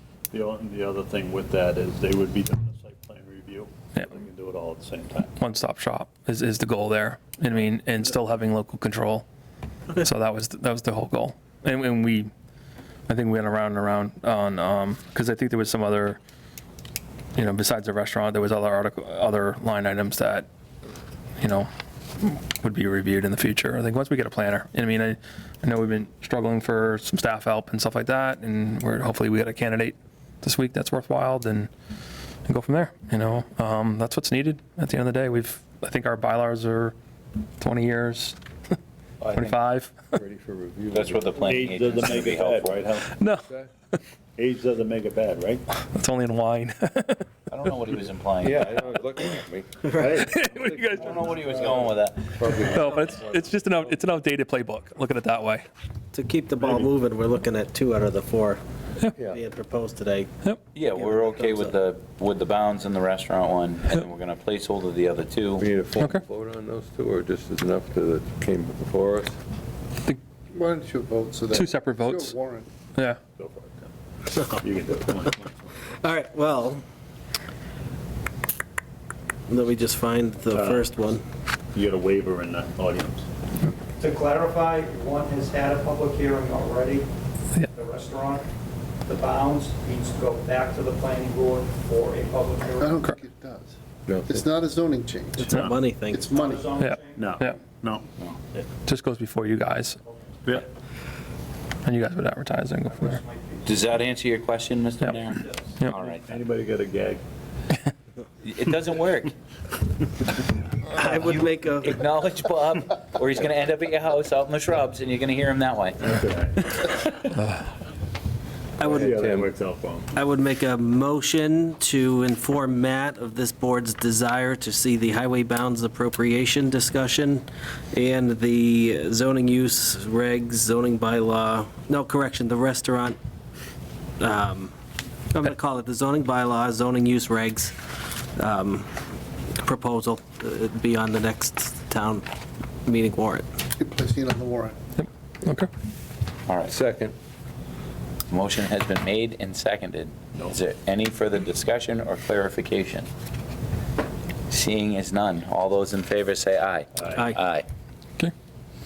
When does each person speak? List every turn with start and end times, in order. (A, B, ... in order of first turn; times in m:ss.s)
0:00.3-0:05.3 A
0:05.4-0:09.3 B
0:10.0-0:12.3 B
0:13.1-0:16.2 B
0:17.4-0:20.5 B
0:21.4-0:31.7 B
0:32.5-0:37.0 B
0:37.6-0:38.4 B
0:39.3-0:40.1 B
0:40.1-0:41.4 C
0:40.9-0:42.8 D
0:41.4-0:43.2 A
0:43.1-0:44.0 B
0:44.4-0:45.6 A
0:45.7-0:47.3 B
0:47.5-0:49.0 D
0:48.4-0:53.4 C
0:49.8-0:50.3 E
0:50.2-0:51.2 B
0:51.0-0:52.3 D
0:52.6-0:55.7 B
0:56.1-0:58.6 E
0:59.2-1:00.3 E
1:00.7-1:05.7 D
1:00.9-1:01.8 E
1:05.6-1:09.4 C
1:06.0-1:06.2 B
1:10.5-1:12.7 F
1:11.5-1:12.4 B
1:13.4-1:13.9 A
1:14.6-1:15.7 A
1:16.0-1:16.8 E
1:19.5-1:21.2 E
1:20.5-1:20.9 A
1:21.7-1:23.3 A
1:24.0-1:27.1 G
1:27.7-1:28.4 G
1:29.1-1:33.1 G
1:32.8-1:36.7 F
1:35.4-1:36.5 E
1:35.5-1:35.8 A
1:36.3-1:37.3 G
1:36.8-1:37.6 B
1:37.2-1:38.2 A
1:38.9-1:40.0 B
1:40.0-1:40.6 G
1:41.8-1:43.2 B
1:42.9-1:44.0 G
1:43.7-1:46.4 D
1:45.3-1:45.8 G
1:46.0-1:47.2 A
1:48.4-1:49.3 D
1:50.9-1:52.0 E
1:51.2-1:56.1 D
1:56.1-1:56.9 A
1:58.8-1:59.2 E
1:58.8-1:59.5 C
1:58.9-2:00.1 A
2:00.1-2:13.2 E
2:14.2-2:14.7 E
2:15.3-2:18.9 E
2:19.6-2:22.2 E
2:22.9-2:23.5 E
2:23.8-2:24.8 F
2:25.0-2:25.7 B
2:26.5-2:26.8 D
2:26.7-2:27.1 C
2:28.3-2:33.1 D
2:34.5-2:37.7 D
2:37.0-2:37.3 A